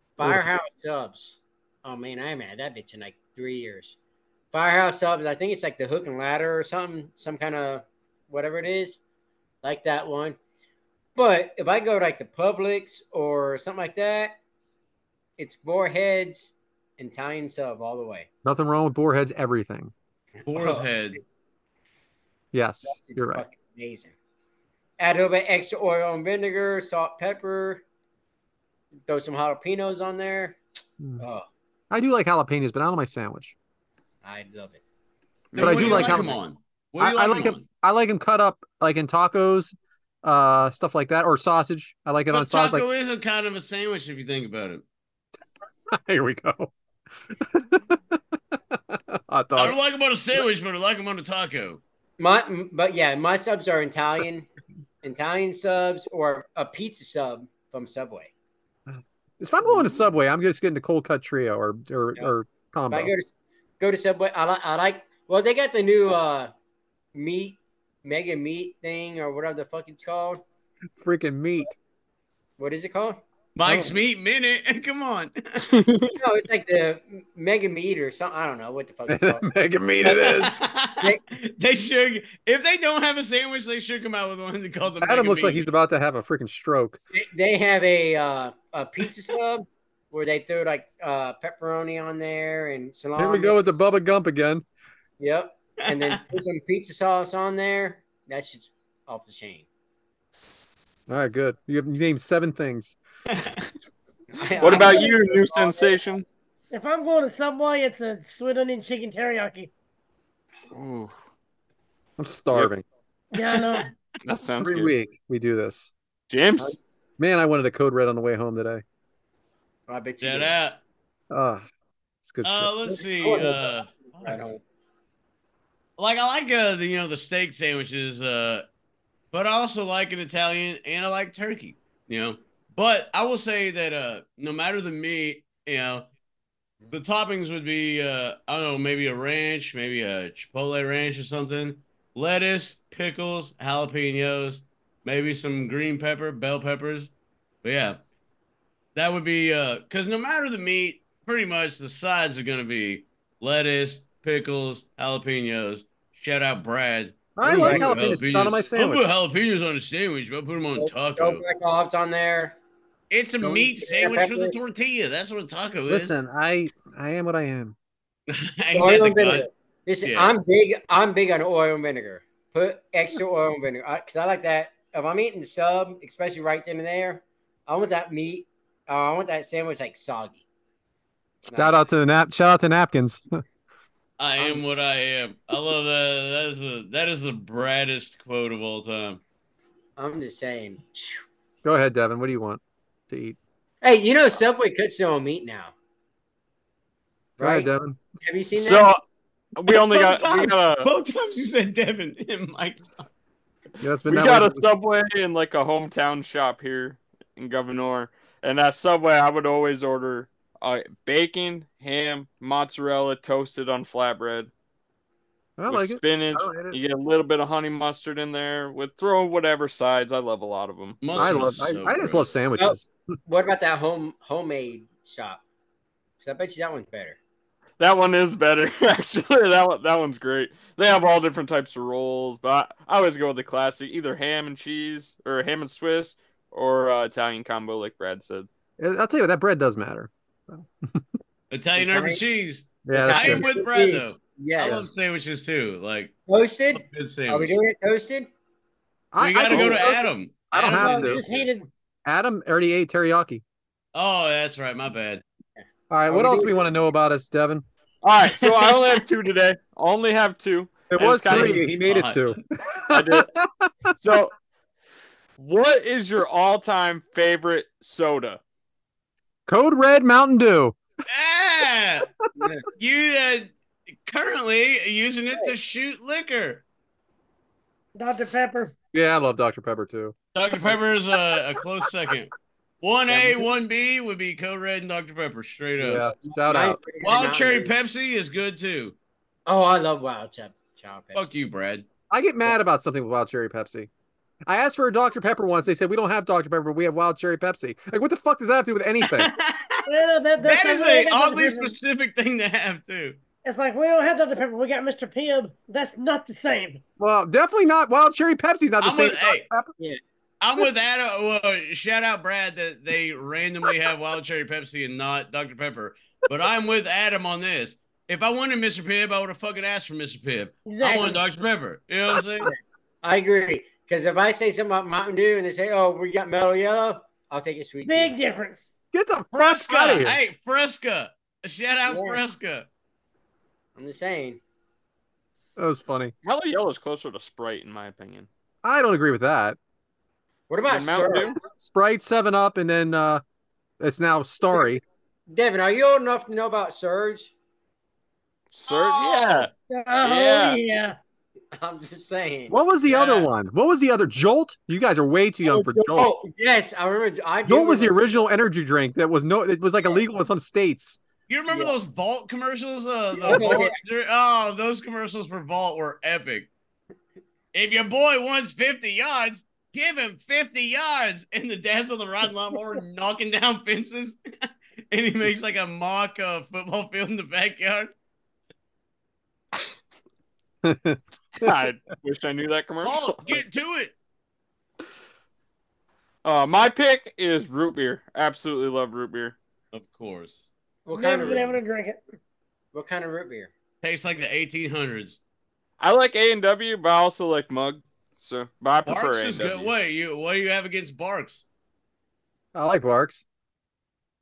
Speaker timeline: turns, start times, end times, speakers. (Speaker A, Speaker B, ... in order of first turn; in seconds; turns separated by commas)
Speaker A: 0.2-4.0, Speaker B: 0.2-0.5, Speaker A: 4.5-9.0, Speaker A: 9.6-10.4, Speaker A: 11.2-14.4, Speaker A: 15.4-18.3, Speaker B: 18.4-19.9, Speaker C: 20.4-21.2, Speaker A: 20.5-20.9, Speaker B: 22.5-23.4, Speaker A: 22.8-24.1, Speaker A: 25.0-27.8, Speaker A: 29.1-30.6, Speaker A: 31.2-31.4, Speaker B: 31.9-33.5, Speaker A: 34.2-34.8, Speaker D: 35.5-36.2, Speaker C: 35.5-37.6, Speaker B: 35.6-36.4, Speaker B: 37.0-42.8, Speaker C: 42.3-44.8, Speaker B: 45.9-46.7, Speaker B: 47.3-49.8, Speaker C: 49.5-51.8, Speaker A: 52.2-54.5, Speaker A: 55.0-58.3, Speaker B: 58.9-63.1, Speaker A: 59.7-60.0, Speaker A: 62.9-66.5, Speaker A: 67.1-70.4, Speaker B: 71.0-71.7, Speaker A: 72.6-73.2, Speaker C: 73.5-75.7, Speaker B: 73.6-74.0, Speaker D: 75.7-76.2, Speaker A: 76.2-79.5, Speaker B: 79.1-80.5, Speaker A: 80.0-80.5, Speaker C: 80.1-85.7, Speaker B: 85.0-87.0, Speaker A: 87.1-93.5, Speaker B: 93.2-94.6, Speaker A: 95.2-99.7, Speaker C: 95.9-96.2, Speaker B: 101.1-103.0, Speaker C: 103.3-103.6, Speaker A: 104.4-106.0, Speaker D: 104.5-106.2, Speaker E: 106.7-109.7, Speaker D: 110.7-111.1, Speaker B: 112.2-112.8, Speaker E: 113.3-113.9, Speaker D: 114.2-114.9, Speaker B: 114.6-115.9, Speaker D: 116.3-116.8, Speaker B: 116.6-118.8, Speaker A: 119.9-120.5, Speaker C: 120.2-120.8, Speaker B: 121.3-121.6, Speaker B: 122.2-122.7, Speaker C: 122.4-124.4, Speaker A: 122.9-124.6, Speaker C: 126.0-128.6, Speaker C: 129.3-136.1, Speaker C: 136.9-147.1, Speaker C: 147.6-148.0, Speaker C: 148.9-161.4, Speaker B: 157.3-159.0, Speaker A: 157.4-158.0, Speaker A: 160.8-162.6, Speaker C: 163.1-166.1, Speaker A: 163.4-164.5, Speaker B: 165.9-167.7, Speaker C: 168.3-169.5, Speaker A: 168.7-180.4, Speaker C: 170.0-170.3, Speaker A: 181.5-181.8, Speaker B: 181.5-183.4, Speaker C: 184.2-189.2, Speaker A: 190.0-191.2, Speaker B: 191.6-193.4, Speaker A: 193.8-195.7, Speaker A: 197.4-197.7, Speaker B: 197.4-198.0, Speaker A: 198.2-198.9, Speaker D: 198.5-199.0, Speaker D: 199.6-200.9, Speaker C: 199.7-203.1, Speaker B: 203.8-204.6, Speaker D: 204.0-214.5, Speaker B: 215.6-216.8, Speaker D: 215.7-221.4, Speaker C: 221.0-222.3, Speaker B: 221.2-222.9, Speaker A: 222.6-225.4, Speaker A: 226.2-227.2, Speaker D: 227.8-238.5, Speaker B: 238.8-241.0, Speaker C: 241.5-246.1, Speaker A: 241.8-242.2, Speaker B: 242.8-243.4, Speaker A: 242.9-244.9, Speaker A: 246.3-248.3, Speaker C: 246.7-247.6, Speaker B: 249.1-251.2, Speaker C: 249.2-251.5, Speaker D: 249.5-249.9, Speaker E: 250.7-251.7, Speaker B: 252.0-253.4, Speaker C: 253.9-255.2, Speaker A: 255.6-256.6, Speaker B: 255.9-257.6, Speaker D: 258.0-261.8, Speaker C: 258.4-258.7, Speaker B: 260.9-263.9, Speaker C: 261.3-262.4, Speaker D: 262.9-263.3, Speaker D: 264.0-264.3, Speaker D: 265.4-268.4, Speaker B: 269.5-270.8, Speaker C: 271.1-272.1, Speaker A: 272.4-272.6, Speaker C: 272.8-273.5, Speaker C: 274.1-276.6, Speaker E: 277.9-278.7, Speaker B: 278.9-280.8, Speaker C: 280.3-286.0, Speaker B: 283.1-283.5, Speaker B: 285.8-286.8, Speaker A: 286.2-287.7, Speaker C: 287.0-288.9, Speaker A: 289.4-291.3, Speaker C: 291.1-291.8, Speaker B: 292.1-293.9, Speaker B: 294.5-299.3, Speaker C: 299.0-299.9, Speaker E: 299.9-301.8, Speaker C: 300.4-303.2, Speaker E: 303.4-306.8, Speaker B: 307.0-309.7, Speaker C: 308.8-309.4, Speaker C: 310.4-322.5, Speaker E: 320.6-321.2, Speaker A: 320.8-321.2, Speaker A: 322.4-328.1, Speaker E: 327.8-328.7, Speaker B: 328.9-330.2, Speaker C: 329.3-332.7, Speaker A: 331.9-332.2, Speaker A: 333.8-334.4, Speaker B: 335.6-336.1, Speaker D: 336.2-338.3, Speaker B: 338.6-339.6, Speaker A: 340.5-341.4, Speaker D: 340.7-341.3, Speaker B: 341.4-343.2, Speaker B: 343.8-344.8, Speaker A: 345.3-347.3, Speaker D: 348.5-349.5, Speaker C: 348.7-349.5, Speaker E: 349.7-351.0, Speaker D: 350.0-350.6, Speaker A: 351.5-352.6, Speaker B: 352.5-356.1, Speaker C: 352.9-353.3, Speaker A: 355.4-358.0, Speaker B: 357.4-361.0, Speaker C: 361.3-366.5, Speaker A: 361.5-361.8, Speaker A: 363.1-363.7, Speaker C: 367.5-377.9, Speaker B: 380.6-381.5, Speaker D: 381.4-383.4, Speaker C: 382.8-383.9, Speaker D: 386.2-389.4, Speaker C: 389.7-390.5, Speaker A: 390.9-391.6, Speaker E: 390.9-392.0, Speaker A: 392.7-393.5, Speaker C: 393.8-395.2, Speaker D: 395.8-399.7, Speaker C: 398.9-401.4, Speaker B: 402.5-403.2